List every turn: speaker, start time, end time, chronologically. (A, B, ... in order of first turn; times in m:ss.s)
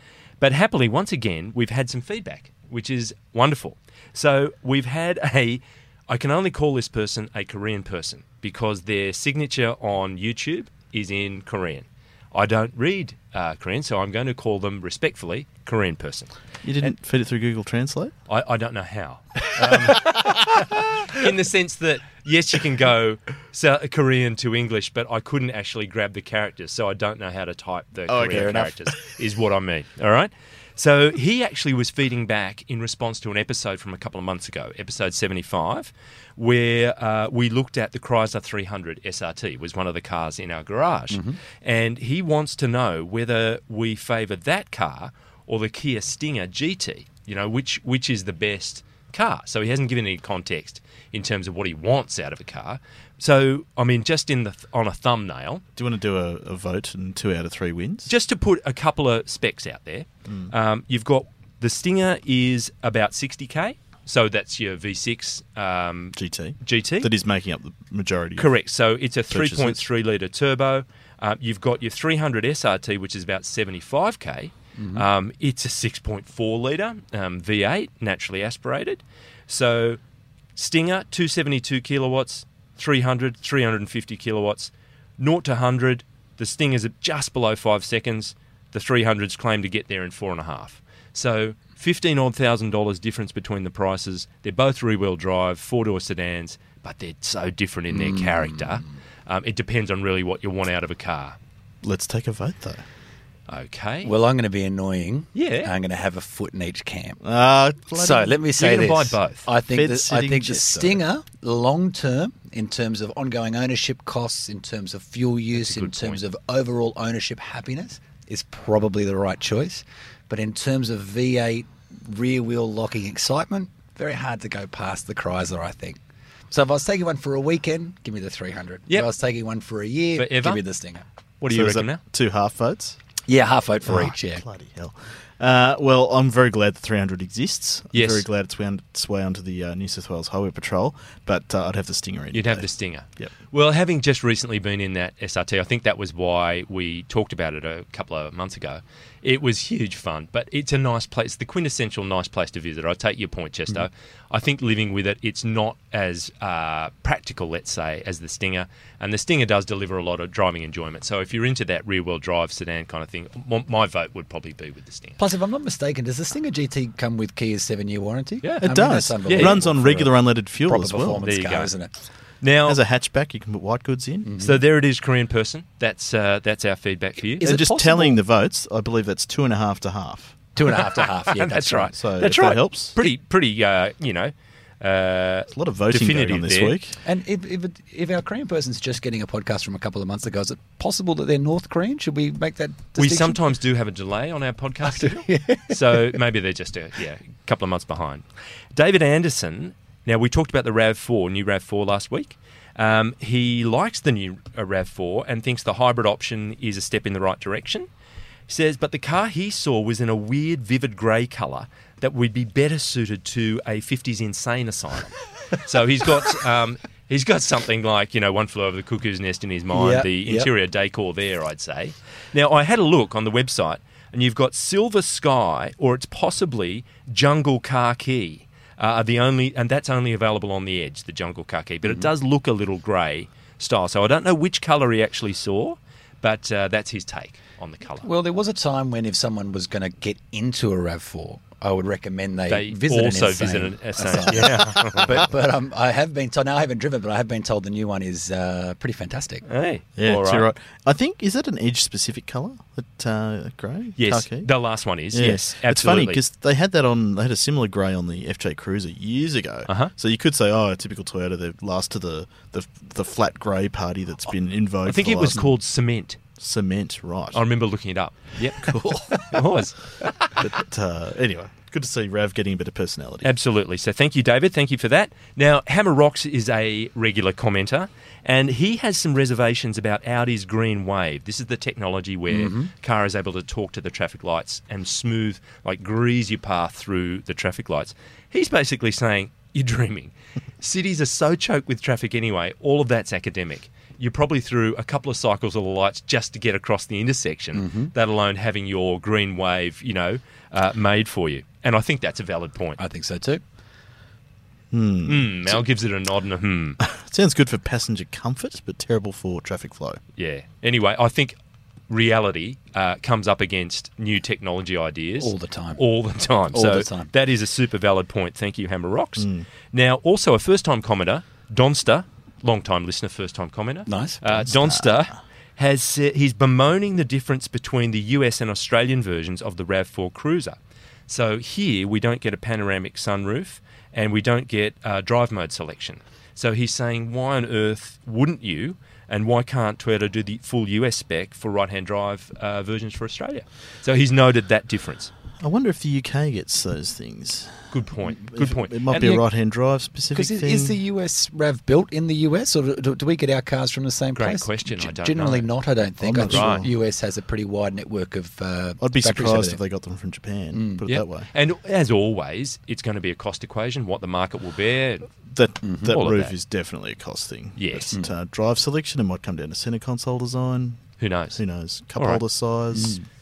0:00.4-0:16.3 A
0:16.6-0:18.1 B
0:18.3-0:55.6 A
0:19.6-0:20.5 B
0:28.1-0:29.1 B
0:41.1-0:41.4 C
0:55.8-0:58.1 B
0:58.1-1:07.1 A
1:00.3-1:00.5 B
1:06.2-1:08.5 B
1:08.4-1:20.0 A
1:09.3-1:09.8 B
1:14.8-1:15.0 C
1:20.6-1:41.4 A
1:37.9-1:38.7 C
1:41.8-1:42.8 B
1:43.5-1:44.1 A
1:44.0-1:47.2 C
1:45.3-1:45.7 A
1:47.2-1:48.4 B
1:48.0-2:06.0 C
1:48.6-1:49.4 A
1:49.7-1:51.0 B
1:55.5-1:56.2 A
2:06.5-2:11.0 C
2:10.2-2:10.6 A
2:11.4-2:12.0 A
2:11.5-2:13.0 B
2:13.3-2:14.4 C
2:13.8-2:23.3 B
2:17.9-2:18.2 A
2:22.3-2:45.2 A
2:45.2-2:51.9 C
2:48.4-2:48.7 A
2:48.6-2:51.2 B
2:49.2-2:49.5 A
2:51.2-2:51.7 A
2:52.4-2:52.8 A
2:52.6-2:54.4 B
2:54.2-2:54.5 C
2:54.4-2:57.5 A
2:57.4-2:58.2 C
2:57.4-3:00.4 B
3:00.6-3:01.9 C
3:00.7-3:06.8 A
3:02.0-3:03.0 B
3:05.5-3:07.0 B
3:07.0-3:13.4 C
3:13.0-3:27.9 A
3:14.9-3:16.0 C
3:28.5-3:58.1 A
3:39.7-3:40.5 C
3:58.0-4:09.4 C
4:02.5-4:05.2 A
4:09.5-4:10.5 A
4:10.0-4:14.5 B
4:14.0-4:16.2 A
4:15.1-4:25.5 B
4:24.8-4:26.2 A
4:26.4-4:27.4 B
4:27.3-4:29.9 A
4:30.4-4:33.3 B
4:33.2-5:02.8 A
4:42.3-4:42.7 C
4:57.5-4:57.9 C
5:02.8-5:03.4 C
5:04.7-5:05.6 B
5:05.0-5:06.8 A
5:06.8-5:10.0 B
5:10.2-5:11.4 A
5:11.9-5:30.6 A
5:15.2-5:15.8 C
5:16.5-5:17.1 C
5:19.2-5:19.4 B
5:23.9-5:24.2 C
5:24.5-5:24.9 B
5:31.1-5:45.1 A
5:45.4-5:50.8 B
5:47.7-5:49.2 A
5:50.1-5:59.6 C
5:54.2-5:55.5 A
5:56.0-5:56.7 B
5:56.0-5:56.6 A
5:58.8-6:01.3 B
6:00.5-6:00.8 C
6:00.8-6:05.1 A
6:05.3-6:13.0 B
6:05.6-6:05.9 C
6:05.9-6:06.3 A
6:07.6-6:07.9 A
6:11.0-6:11.4 A
6:11.9-6:12.2 A
6:12.7-6:13.0 C